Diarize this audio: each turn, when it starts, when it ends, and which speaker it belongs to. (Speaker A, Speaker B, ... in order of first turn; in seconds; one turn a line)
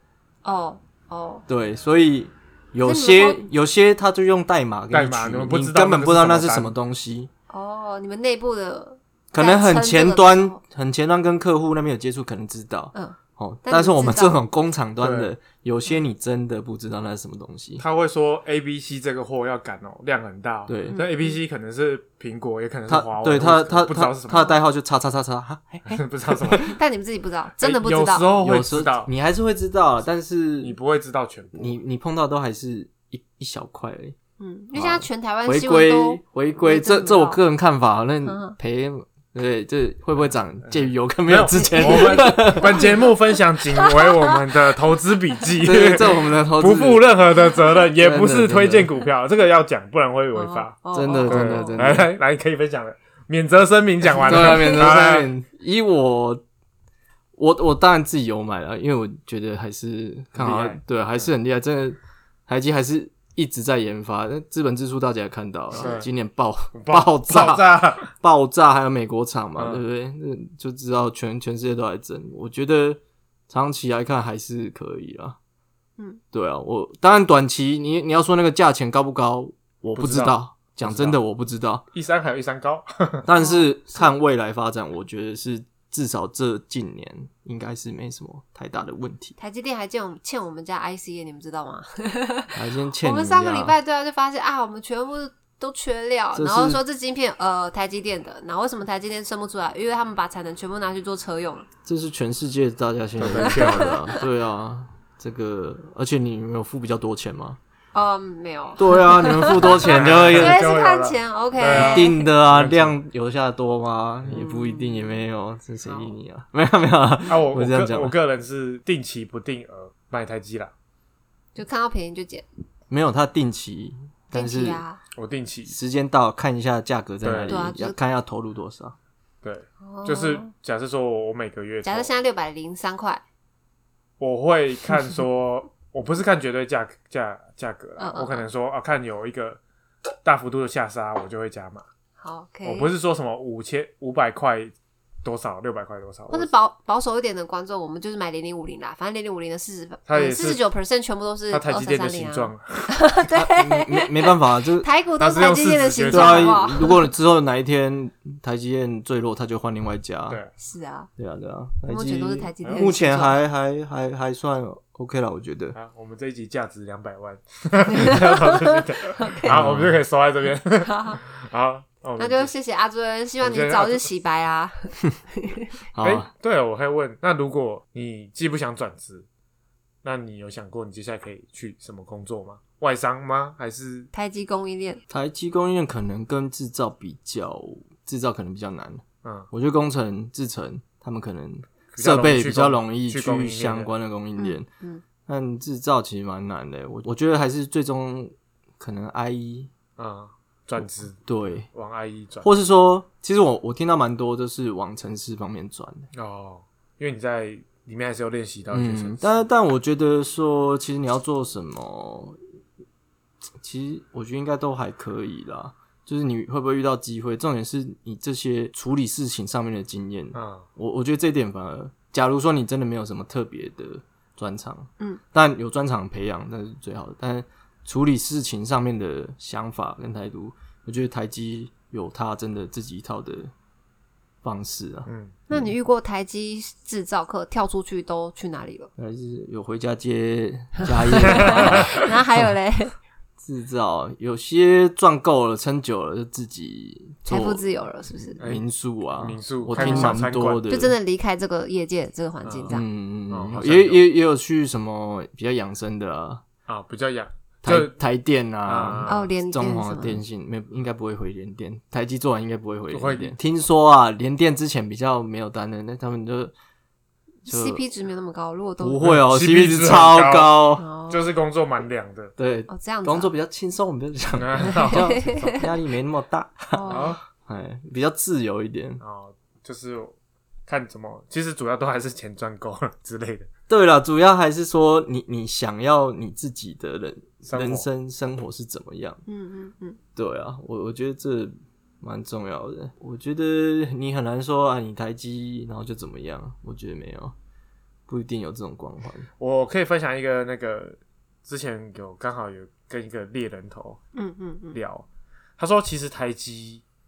Speaker A: 0.4-1.4
Speaker B: 1.5-7.3
Speaker A: 2.8-3.4
Speaker C: 4.9-6.7
Speaker A: 7.5-10.6
Speaker B: 9.3-17.8
Speaker A: 12.9-14.4
Speaker C: 15.0-15.3
Speaker C: 17.8-24.6
Speaker B: 20.7-21.0
Speaker A: 20.9-21.4
Speaker B: 22.9-26.6
Speaker C: 25.8-26.8
Speaker A: 26.5-28.3
Speaker C: 27.6-29.1
Speaker B: 28.4-30.8
Speaker C: 30.6-31.8
Speaker B: 31.5-34.1
Speaker A: 34.4-37.4
Speaker B: 34.7-42.9
Speaker A: 38.2-38.5
Speaker C: 41.2-55.3
Speaker A: 41.5-42.9
Speaker A: 43.7-44.3
Speaker B: 45.6-47.1
Speaker B: 48.0-48.9
Speaker A: 50.3-51.8
Speaker B: 50.9-52.1
Speaker B: 54.2-56.4
Speaker A: 54.3-54.9
Speaker B: 57.4-75.4
Speaker C: 60.3-61.3
Speaker C: 65.7-66.1
Speaker C: 66.7-68.1
Speaker C: 69.6-69.8
Speaker B: 76.3-81.8
Speaker C: 80.0-81.2
Speaker C: 81.9-83.3
Speaker B: 83.2-89.3
Speaker A: 83.3-84.1
Speaker A: 89.4-101.7
Speaker B: 92.5-93.8
Speaker B: 96.3-96.8
Speaker B: 101.8-107.6
Speaker C: 103.2-104.0
Speaker A: 103.3-104.2
Speaker A: 107.9-112.3
Speaker B: 108.8-110.7
Speaker C: 109.7-112.9
Speaker B: 111.7-118.1
Speaker A: 114.3-115.2
Speaker A: 115.8-116.2
Speaker C: 117.2-120.7
Speaker A: 121.5-122.5
Speaker B: 122.9-124.8
Speaker A: 124.3-125.0
Speaker C: 125.1-125.7
Speaker B: 125.7-128.9
Speaker C: 127.2-127.6
Speaker A: 127.5-128.0
Speaker C: 129.4-132.1
Speaker A: 129.8-130.5
Speaker A: 131.8-133.2
Speaker C: 134.2-139.6
Speaker A: 138.0-138.4
Speaker C: 140.2-141.8
Speaker A: 142.2-142.9
Speaker C: 142.6-146.5
Speaker A: 146.3-157.1
Speaker C: 150.1-150.6
Speaker C: 151.5-153.0
Speaker B: 153.3-154.9
Speaker C: 155.2-156.7
Speaker B: 156.1-160.4
Speaker A: 160.6-161.1
Speaker B: 161.2-165.8
Speaker A: 161.9-163.4
Speaker C: 162.6-162.9
Speaker C: 165.7-172.5
Speaker A: 167.9-168.6
Speaker A: 169.2-169.5
Speaker B: 169.5-170.0
Speaker A: 170.8-171.2
Speaker A: 172.2-175.7
Speaker C: 173.4-174.1
Speaker B: 175.9-176.3
Speaker C: 176.0-179.3
Speaker C: 180.0-184.1
Speaker A: 184.1-185.0
Speaker B: 185.1-194.7
Speaker C: 189.2-189.5
Speaker C: 191.9-193.9
Speaker A: 194.4-195.0
Speaker B: 195.3-199.7
Speaker C: 200.0-202.7
Speaker B: 200.8-201.7
Speaker B: 202.4-206.1
Speaker C: 206.1-209.4
Speaker B: 208.7-212.4
Speaker B: 213.6-233.5
Speaker C: 220.3-220.7
Speaker B: 234.4-235.7
Speaker C: 235.1-235.4
Speaker A: 235.5-238.9
Speaker B: 239.0-241.9
Speaker A: 240.8-242.9
Speaker C: 241.2-242.1
Speaker B: 243.4-250.9
Speaker A: 247.2-248.4
Speaker C: 248.4-248.6
Speaker C: 249.2-250.6
Speaker A: 249.7-252.8
Speaker C: 252.4-252.8
Speaker B: 252.7-256.4
Speaker C: 253.3-254.0
Speaker C: 256.7-257.9
Speaker B: 257.6-266.5
Speaker C: 258.6-259.3
Speaker A: 259.1-260.2
Speaker C: 262.9-263.4
Speaker A: 267.4-269.0
Speaker B: 267.5-267.8
Speaker B: 268.8-270.8
Speaker C: 269.0-272.3
Speaker A: 270.8-271.2
Speaker B: 272.4-279.0
Speaker A: 272.7-273.3
Speaker C: 274.3-275.2
Speaker A: 274.7-275.7
Speaker A: 276.7-277.1
Speaker C: 276.9-277.2
Speaker C: 279.0-280.1
Speaker C: 280.7-283.5
Speaker B: 283.7-289.2
Speaker C: 287.4-287.9
Speaker A: 289.3-290.0
Speaker B: 290.1-297.3
Speaker B: 298.1-299.3
Speaker C: 299.4-304.0
Speaker A: 304.1-304.8
Speaker C: 304.7-305.1
Speaker C: 305.6-306.8